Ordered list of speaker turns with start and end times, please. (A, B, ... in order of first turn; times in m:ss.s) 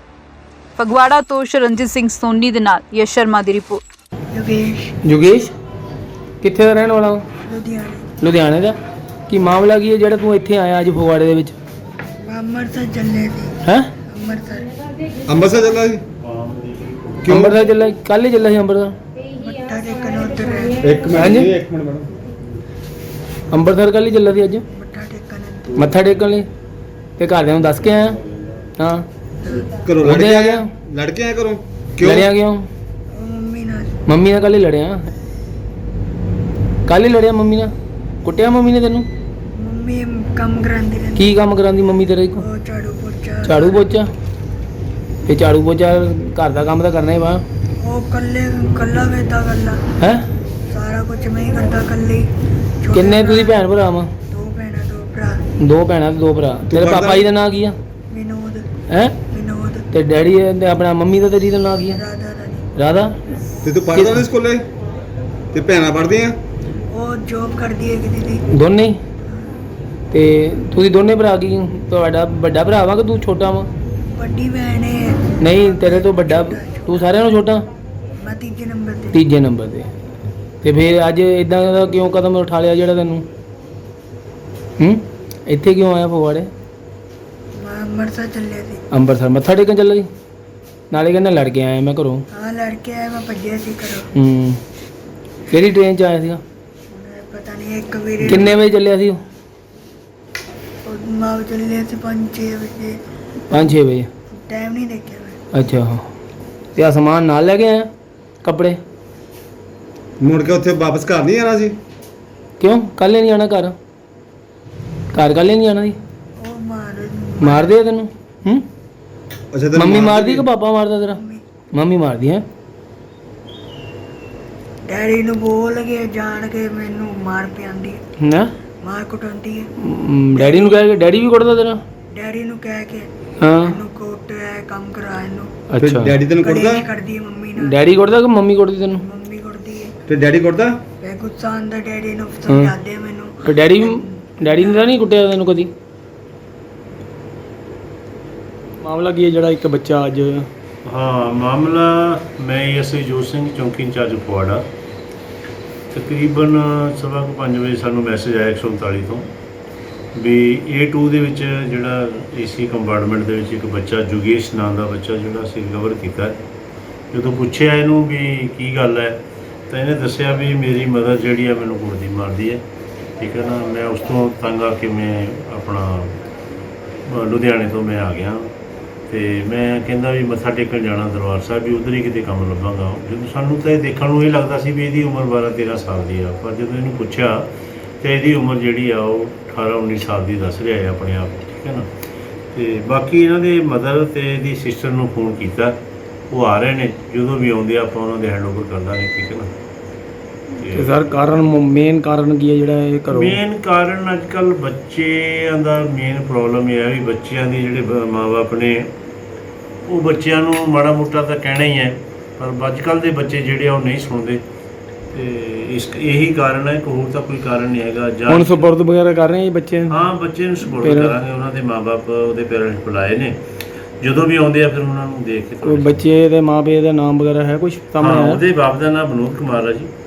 0:00.8-0:03.8 A
0:04.3-0:05.0 B
0:05.0-0:05.5 C
0:06.4-0:07.2 C
0:07.4-0:08.1 B
0:08.2-0:08.8 C
0:09.3-0:11.5 C
0:12.2-0:13.6 B
0:13.6-0:13.9 C
0:14.1-0:14.7 B
0:15.2-0:16.0 D
0:16.2-0:17.4 E
0:17.3-0:17.5 D
0:17.3-0:19.0 C
0:19.4-0:20.9 B
0:20.8-0:22.1 D
0:21.1-0:21.5 C
0:23.5-0:24.6 C
0:24.7-0:25.9 B
0:25.8-0:26.5 C
0:27.2-0:28.2 C
0:28.8-0:29.0 C
0:29.4-0:29.7 B
0:29.8-0:32.3 D
0:30.0-0:30.7 C
0:32.0-0:32.7 C
0:33.1-0:33.9 B
0:34.1-0:35.1 C
0:36.9-0:37.7 C
0:38.2-0:39.1 C
0:39.6-0:41.3 B
0:41.2-0:42.4 C
0:42.4-0:43.8 B
0:43.4-0:44.1 C
0:45.2-0:47.4 C
0:47.8-0:49.8 B
0:50.0-0:50.2 C
0:50.7-0:52.3 B
0:52.8-0:53.6 B
0:52.9-0:54.1 C
0:54.3-0:55.4 B
0:55.6-0:57.8 C
0:56.7-0:57.2 D
0:58.1-0:58.6 B
0:58.9-0:59.2 C
0:59.3-0:59.8 B
0:59.9-1:02.0 C
1:01.9-1:02.7 B
1:02.8-1:03.2 C
1:03.6-1:04.6 D
1:03.9-1:04.2 C
1:05.5-1:06.4 D
1:06.9-1:08.4 B
1:08.5-1:09.0 C
1:10.1-1:13.7 C
1:14.1-1:17.1 B
1:15.4-1:17.6 C
1:18.2-1:19.2 B
1:19.1-1:19.9 C
1:20.6-1:23.3 C
1:24.8-1:26.5 C
1:27.6-1:28.8 B
1:28.9-1:30.1 C
1:30.9-1:32.2 C
1:32.3-1:34.1 B
1:34.2-1:34.6 C
1:35.5-1:36.4 C
1:36.9-1:38.6 B
1:38.2-1:39.2 C
1:40.8-1:43.0 B
1:43.5-1:43.7 B
1:43.5-1:44.1 C
1:44.3-1:45.4 B
1:45.5-1:46.0 C
1:46.8-1:47.9 C
1:48.4-1:48.8 C
1:50.2-1:51.8 D
1:52.6-1:53.8 C
1:55.1-1:56.0 C
1:56.4-1:57.7 B
1:57.4-1:58.6 C
1:59.5-2:00.5 D
1:59.7-2:01.2 C
2:01.1-2:01.4 B
2:01.7-2:02.4 C
2:04.9-2:08.0 B
2:08.2-2:08.5 C
2:08.8-2:09.7 B
2:09.8-2:11.8 C
2:10.3-2:10.9 B
2:12.1-2:15.5 B
2:13.4-2:13.8 C
2:15.7-2:16.2 C
2:15.8-2:16.8 D
2:16.4-2:17.8 B
2:17.6-2:19.0 C
2:19.0-2:19.9 B
2:20.1-2:20.8 D
2:21.0-2:24.8 B
2:22.5-2:22.7 C
2:23.4-2:25.7 C
2:28.8-2:30.5 C
2:30.8-2:34.6 E
2:35.9-2:39.3 E
2:40.1-2:46.4 E
2:47.1-2:52.6 E
2:53.2-2:56.2 E
2:57.0-2:58.5 E
2:59.1-3:07.5 E
3:08.0-3:11.9 E
3:12.5-3:15.8 E
3:16.3-3:19.5 E
3:20.5-3:21.5 E
3:20.7-3:23.4 C
3:23.1-3:28.9 E
3:29.8-3:34.4 E
3:35.1-3:38.7 E
3:38.3-3:40.0 C
3:39.9-3:43.4 E
3:40.7-3:41.1 C
3:44.0-3:46.1 E
3:45.6-3:48.4 C
3:48.0-3:49.9 E